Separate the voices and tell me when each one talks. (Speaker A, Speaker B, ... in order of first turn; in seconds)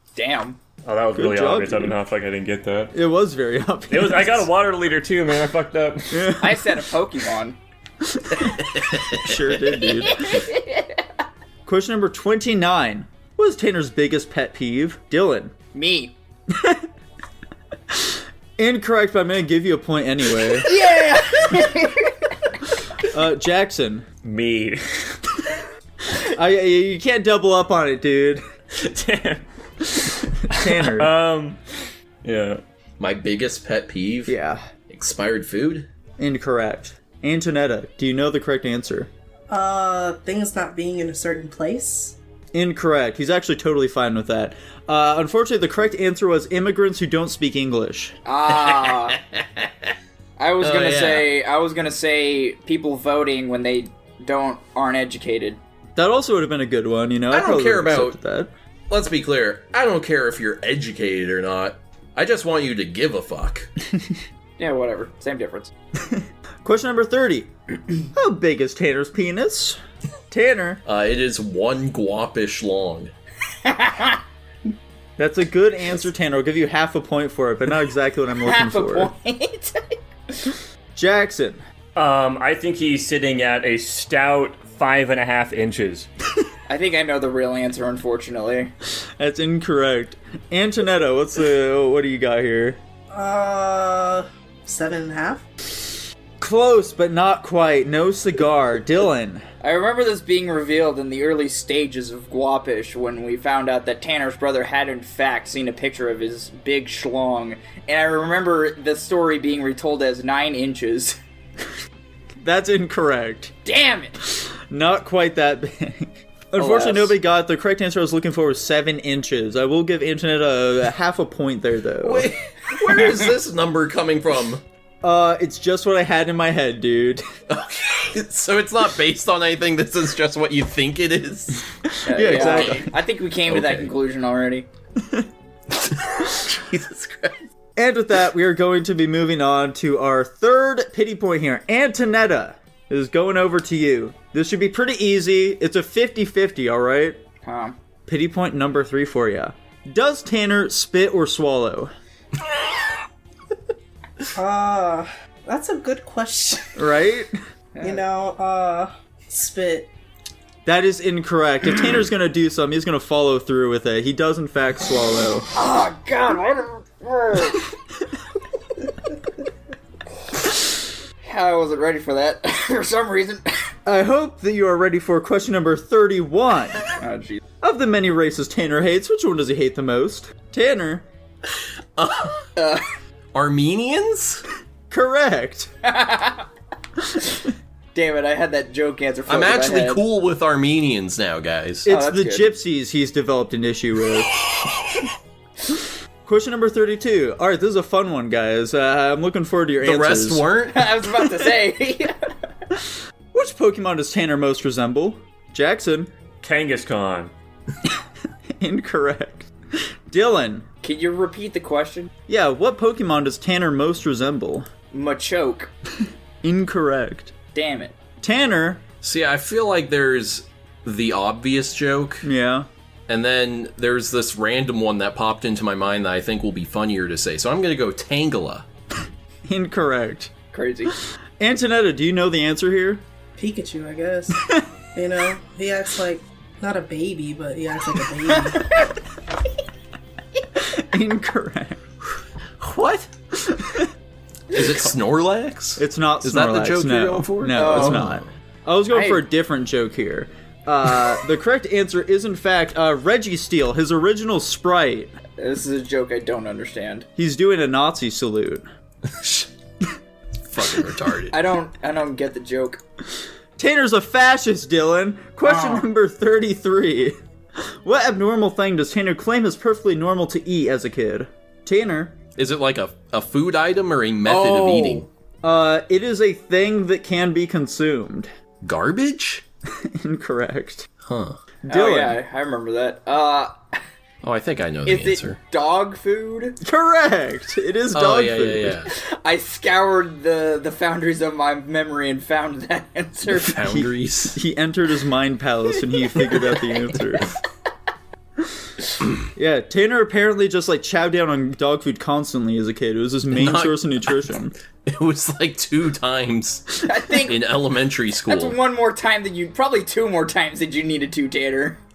Speaker A: 0.2-0.6, 6.4-7.6, 10.0-11.0, 15.7-16.1, 20.6-22.3, 48.2-49.2, 50.4-55.6, 64.6-65.7, 73.6-74.2, 78.4-80.5, 86.7-88.7, 99.6-111.2, 113.7-114.2, 116.6-117.2, 132.1-134.7, 147.4-147.8, 157.8-158.0, 165.5-167.7, 171.2-173.7, 177.0-177.4, 182.6-182.8, 185.8-186.5, 187.9-190.0, 191.9-192.5, 200.7-202.3, 210.8-212.1, 214.9-215.7, 217.5-217.9, 230.5-230.9, 247.5-248.1, 248.9-249.2, 255.4-257.1, 261.3-262.8, 265.4-265.9, 274.3-275.1, 281.7-283.8, 284.9-286.6, 288.9-293.6, 306.8-307.4, 308.3-311.8
Speaker B: 0.8-2.9, 3.9-6.3, 24.2-25.2, 28.8-31.6, 32.2-32.6, 82.0-86.1, 206.4-207.3
Speaker C: 1.1-2.0, 2.9-4.5, 6.1-6.8, 8.1-10.5, 11.7-15.5, 16.5-16.9, 17.9-20.9, 23.1-24.1, 26.2-28.4, 30.4-31.1, 34.3-34.6, 36.2-39.1, 42.5-48.2, 56.0-58.5, 66.0-67.5, 68.1-69.8, 70.3-70.8, 75.2-79.1, 81.0-81.6, 89.2-92.8, 96.4-99.5, 112.4-113.5, 114.3-122.3, 125.0-127.2, 131.9-132.9, 137.8-147.2, 148.1-151.9, 156.8-157.3, 160.7-165.5, 173.8-176.9, 177.6-181.1, 184.9-185.7, 191.8-194.4, 195.7-200.4, 203.3-206.1, 208.6-209.5, 210.1-210.7, 212.3-214.7, 216.4-217.3, 218.2-218.8, 222.2-222.7, 229.5-230.3, 231.4-233.0, 234.4-234.7, 240.6-241.8, 243.3-243.9, 245.8-255.2, 257.2-258.7, 263.6-272.1, 275.4-278.3, 279.7-280.9, 281.6-282.2, 286.6-288.9, 293.6-297.3, 299.3-304.6
Speaker D: 8.9-9.4, 33.0-34.4, 34.9-35.9, 48.7-49.7, 50.6-51.3, 57.3-58.2, 58.9-63.7, 70.8-73.1, 122.0-124.6, 127.5-133.9, 135.8-137.4, 182.0-182.5, 183.3-184.4, 189.3-191.9, 199.8-200.9, 219.0-222.3, 223.1-228.7, 242.6-243.1, 244.5-248.2, 259.1-259.5, 260.5-261.4, 272.4-275.1, 278.6-279.4, 281.1-281.4, 284.2-285.4, 287.9-288.9, 293.2-294.4, 303.3-304.3, 304.9-308.6
Speaker E: 39.5-42.2, 93.1-95.4, 154.3-156.8, 157.8-159.9, 233.4-238.8